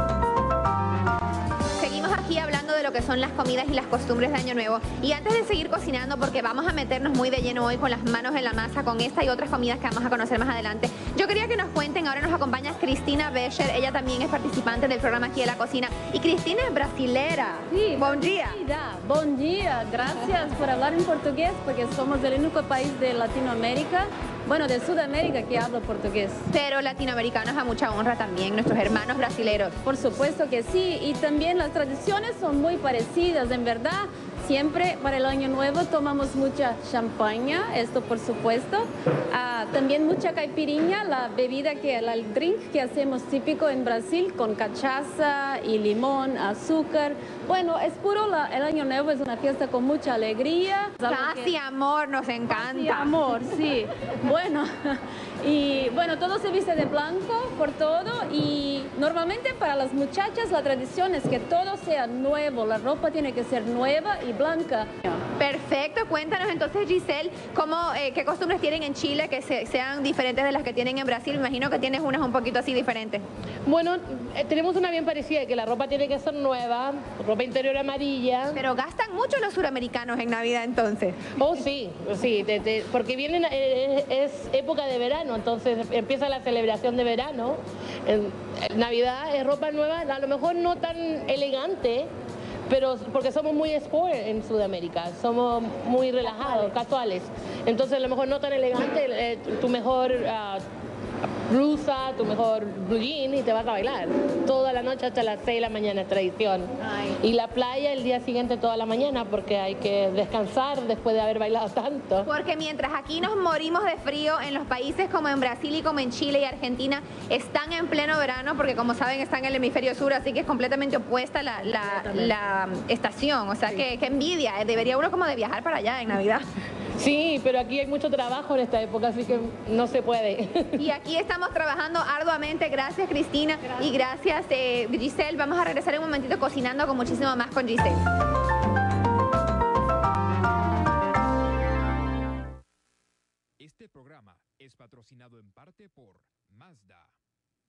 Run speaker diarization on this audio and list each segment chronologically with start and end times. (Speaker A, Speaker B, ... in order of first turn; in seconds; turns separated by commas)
Speaker A: 1.8-18.6, Speaker B: 17.7-26.4, Speaker A: 26.5-29.7, Speaker B: 29.8-51.5, Speaker A: 51.0-53.2, Speaker B: 52.5-65.2, Speaker A: 65.4-73.2, Speaker C: 73.7-78.6, Speaker A: 78.6-81.3, Speaker C: 81.3-92.1, Speaker C: 92.7-100.6, Speaker C: 101.5-112.3, Speaker A: 112.2-126.4, Speaker C: 127.0-130.9, Speaker A: 130.8-138.1, Speaker D: 143.6-147.2